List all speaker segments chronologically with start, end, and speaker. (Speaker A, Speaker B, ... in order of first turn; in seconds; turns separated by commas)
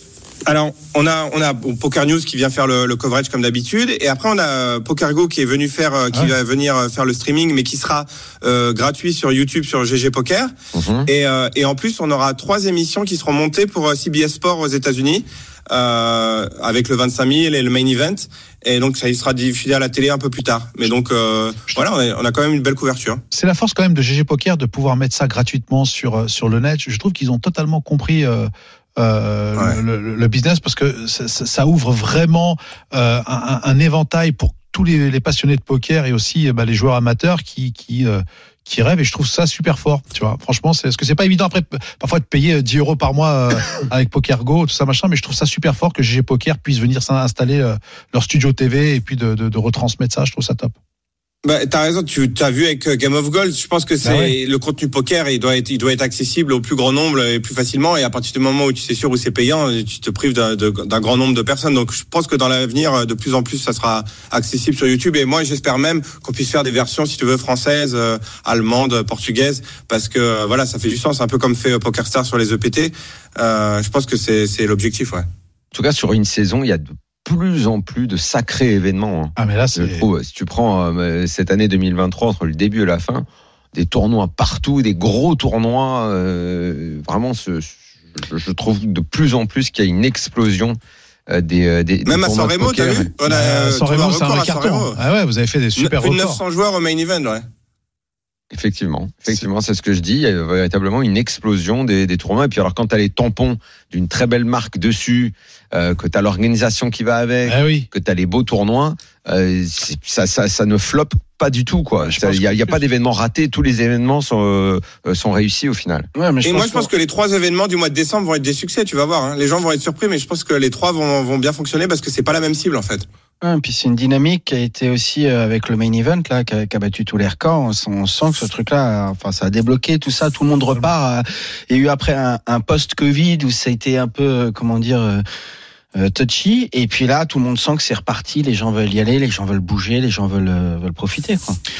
Speaker A: 0.5-10.5, Speaker B: 10.7-11.1, Speaker A: 11.1-23.2, Speaker C: 23.3-50.7, Speaker A: 51.4-75.2, Speaker C: 54.0-54.3, Speaker B: 75.7-93.1, Speaker C: 79.4-80.0, Speaker A: 92.0-95.0, Speaker C: 93.2-96.4, Speaker A: 95.8-97.4, Speaker B: 98.5-116.1, Speaker C: 107.5-107.9, Speaker C: 112.0-112.8, Speaker D: 116.1-116.9, Speaker A: 116.4-123.0, Speaker D: 123.4-135.2, Speaker D: 135.9-141.6